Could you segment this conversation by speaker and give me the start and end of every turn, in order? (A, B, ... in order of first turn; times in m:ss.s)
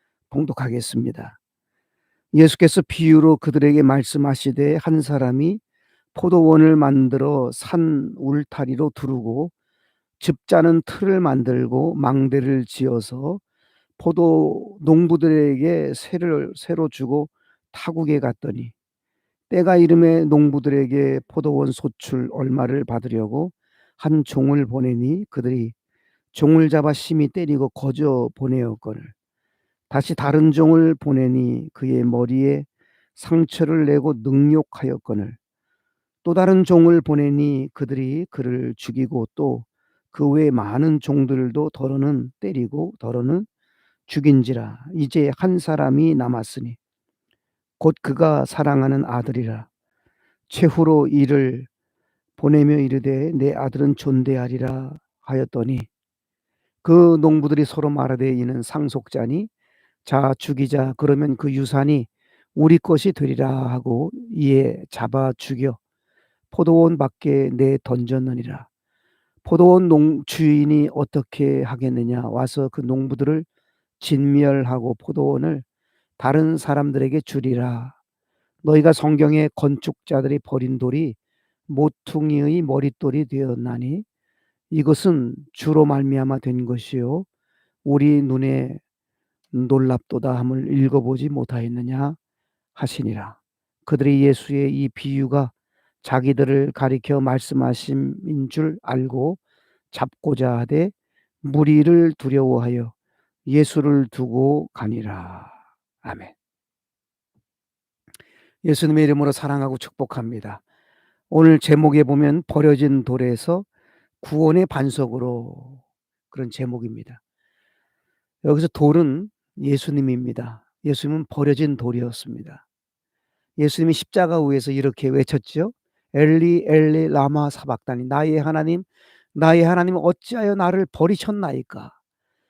0:00.3-0:01.4 A
0:02.3-0:05.6 A
0:06.2-0:09.5 A
0:10.2-0:13.4 A
0:14.0-0:18.7 A
0:19.5-0:25.7 A
0:26.3-0:29.1 A
0:29.9-0:35.4 A
0:36.2-0:43.5 A
0:44.1-0:46.8 A
0:47.8-0:49.7 A
0:50.5-0:51.7 A
0:52.4-0:55.9 A
0:56.8-0:59.5 A
1:00.0-1:05.8 A
1:06.5-1:08.7 A
1:09.4-1:13.5 A
1:14.0-1:15.6 A
1:16.2-1:17.9 A
1:18.6-1:21.2 A
1:21.7-1:24.0 A
1:24.7-1:27.3 A
1:27.8-1:28.8 A
1:29.5-1:32.2 A
1:32.8-1:35.5 A
1:36.0-1:39.4 A
1:39.9-1:42.9 A
1:43.5-1:46.3 A
1:48.6-1:50.6 A
1:51.3-1:53.7 A
1:54.2-1:57.2 A
1:58.4-2:02.6 A
2:03.6-2:11.9 A